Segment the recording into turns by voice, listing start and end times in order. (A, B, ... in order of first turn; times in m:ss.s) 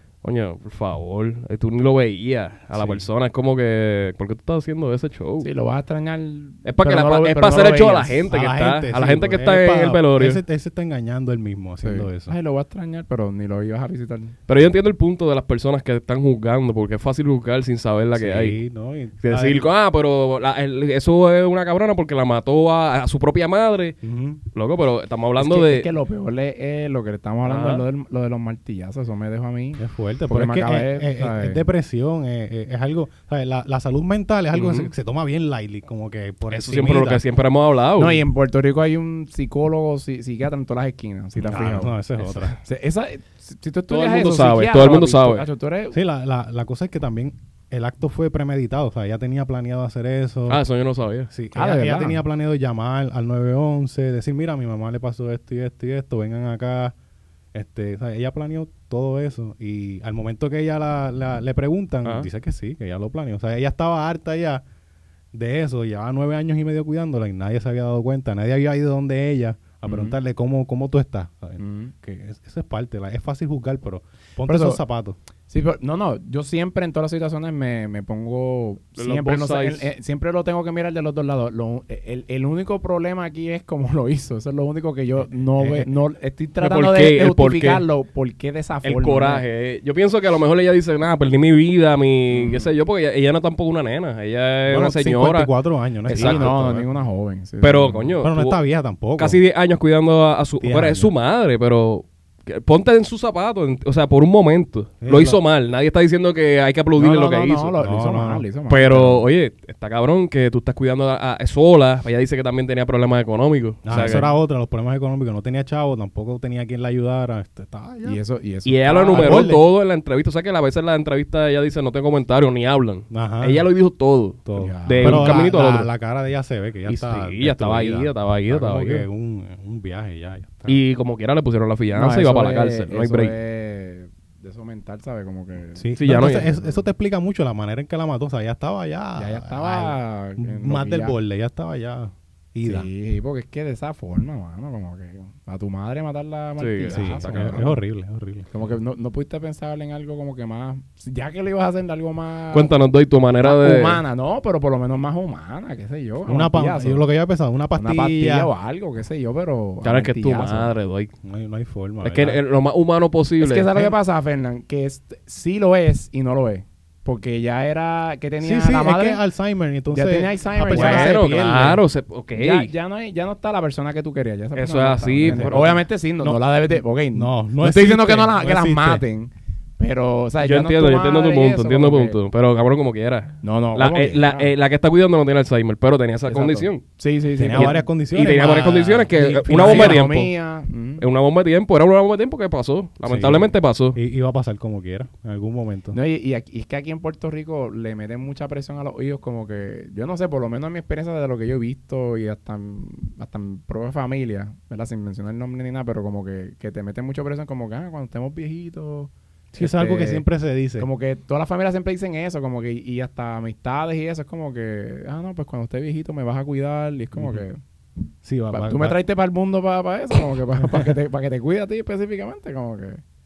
0:00.2-0:05.5 A
0:05.4-0:08.3 B
0:06.6-0:10.4 A
0:08.3-0:12.3 C
0:11.8-0:14.4 B
0:14.5-0:18.6 A
0:18.2-0:19.7 C
0:19.2-0:24.0 A
0:24.0-0:24.4 C
0:24.5-0:25.9 A
0:25.4-0:31.6 B
0:27.4-0:27.8 A
0:29.8-0:37.2 C
0:34.5-0:34.9 A
0:36.5-0:38.2 A
0:38.0-0:41.9 B
0:41.4-0:42.6 C
0:42.5-0:46.0 B
0:43.9-0:45.4 A
0:45.9-0:50.6 C
0:50.5-0:51.3 A
0:51.3-0:56.9 C
0:51.5-0:52.2 B
0:57.5-1:04.6 C
1:05.3-1:15.2 C
1:09.8-1:10.1 B
1:11.6-1:11.9 B
1:14.5-1:14.8 B
1:15.5-1:29.4 B
1:19.0-1:19.9 A
1:25.6-1:25.8 C
1:26.6-1:27.8 A
1:28.8-1:35.5 A
1:32.3-1:32.7 B
1:34.7-1:36.9 C
1:36.1-1:38.1 B
1:36.1-1:36.5 A
1:37.6-1:38.6 A
1:38.2-1:39.4 C
1:39.2-1:47.7 A
1:40.6-1:41.1 C
1:45.0-1:45.4 C
1:47.0-1:49.2 B
1:47.8-1:48.4 C
1:48.7-1:54.3 A
1:53.8-1:58.2 C
1:53.9-1:54.2 B
1:58.0-1:59.5 B
1:58.6-2:05.9 A
1:59.1-1:59.6 C
2:03.1-2:03.7 C
2:04.4-2:10.8 C
2:04.5-2:05.5 B
2:06.9-2:09.0 A
2:10.7-2:13.3 A
2:11.9-2:16.8 B
2:15.8-2:22.9 C
2:16.0-2:16.5 A
2:19.2-2:21.2 B
2:22.6-2:27.8 B
2:26.6-2:27.6 A
2:26.9-2:28.5 C
2:28.5-2:32.7 B
2:32.5-2:34.0 A
2:33.4-2:37.0 B
2:36.2-2:38.5 C
2:37.7-2:40.7 B
2:39.8-2:41.1 A
2:41.2-2:42.4 C
2:42.0-2:43.8 A
2:43.4-2:49.2 B
2:48.4-2:51.2 C
2:49.9-2:51.8 B
2:50.6-2:52.7 A
2:52.3-3:02.2 B
2:54.6-2:55.8 A
2:55.2-2:56.4 C
2:57.1-2:59.0 C
3:00.4-3:06.8 A
3:03.4-3:04.5 B
3:06.3-3:07.8 B
3:07.4-3:10.1 C
3:07.5-3:10.3 A
3:09.4-3:11.0 B
3:11.0-3:14.0 A
3:13.0-3:16.0 C
3:15.9-3:30.2 B
3:29.5-3:30.9 C
3:30.8-3:37.6 B
3:38.2-3:39.0 C
3:38.5-3:43.0 B